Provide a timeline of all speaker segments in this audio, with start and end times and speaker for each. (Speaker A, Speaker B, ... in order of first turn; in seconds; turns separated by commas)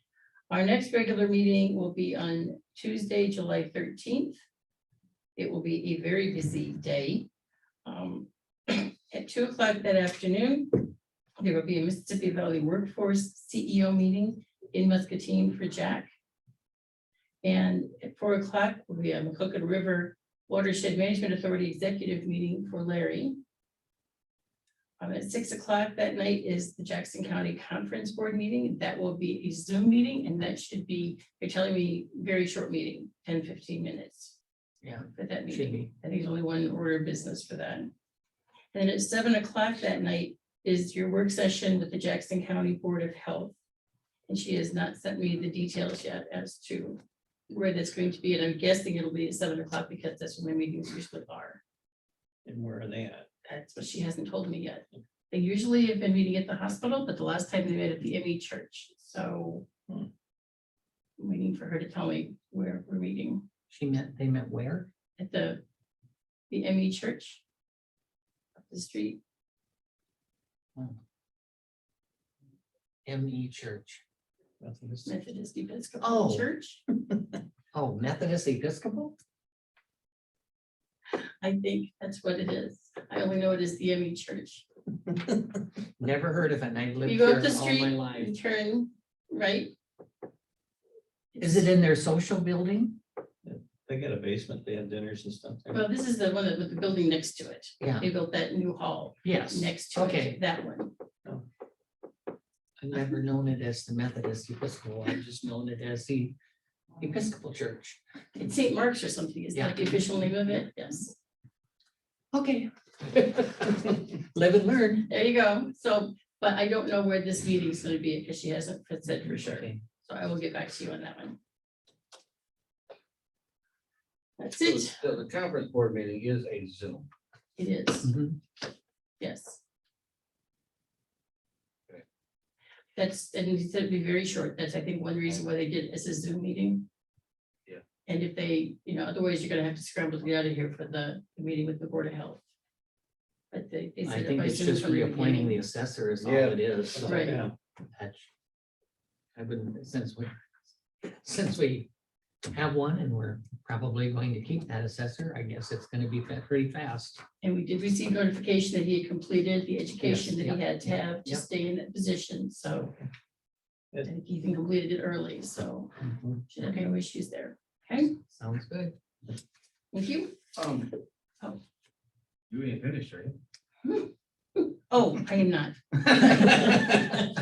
Speaker A: 0.5-4.4, Speaker A: 5.3-7.3, Speaker A: 7.8-16.1, Speaker A: 17.4-23.4, Speaker A: 25.0-34.4, Speaker B: 34.8-35.9, Speaker A: 35.1-37.9, Speaker A: 38.7-43.5, Speaker A: 44.3-51.6, Speaker C: 52.4-53.3, Speaker A: 53.4-59.7, Speaker A: 61.2-63.5, Speaker B: 63.7-64.9, Speaker A: 65.2-65.6, Speaker A: 66.5-67.4, Speaker A: 68.6-69.2, Speaker B: 73.0-74.0, Speaker C: 74.6-75.1, Speaker A: 75.0-76.8, Speaker B: 76.0-76.5, Speaker B: 77.7-79.1, Speaker A: 81.2-84.6, Speaker C: 85.1-85.6, Speaker B: 86.0-88.3, Speaker A: 87.0-89.7, Speaker A: 91.3-91.7, Speaker B: 91.4-93.0, Speaker C: 93.4-95.8, Speaker A: 95.7-100.9, Speaker B: 97.8-98.1, Speaker B: 99.2-100.4, Speaker B: 102.8-106.3, Speaker B: 107.0-108.0, Speaker A: 108.3-111.2, Speaker B: 109.5-110.2, Speaker B: 112.3-115.1, Speaker A: 115.1-121.4, Speaker B: 119.1-119.8, Speaker A: 124.4-125.1, Speaker D: 124.6-127.1, Speaker A: 127.5-128.1, Speaker B: 128.0-128.4, Speaker A: 129.2-129.6, Speaker A: 132.9-136.8, Speaker A: 138.1-142.4, Speaker A: 143.5-145.6, Speaker B: 144.0-147.4, Speaker D: 146.2-146.8, Speaker A: 147.0-147.4, Speaker C: 147.1-147.5, Speaker B: 147.9-148.3, Speaker B: 149.3-150.4, Speaker B: 151.0-151.9, Speaker B: 152.5-157.2, Speaker A: 157.4-162.9, Speaker B: 160.0-161.4, Speaker A: 164.0-168.1, Speaker C: 166.0-166.4, Speaker B: 168.3-168.9, Speaker A: 169.9-170.4, Speaker D: 170.6-170.9, Speaker D: 172.5-173.3, Speaker A: 173.8-177.0, Speaker D: 176.2-176.9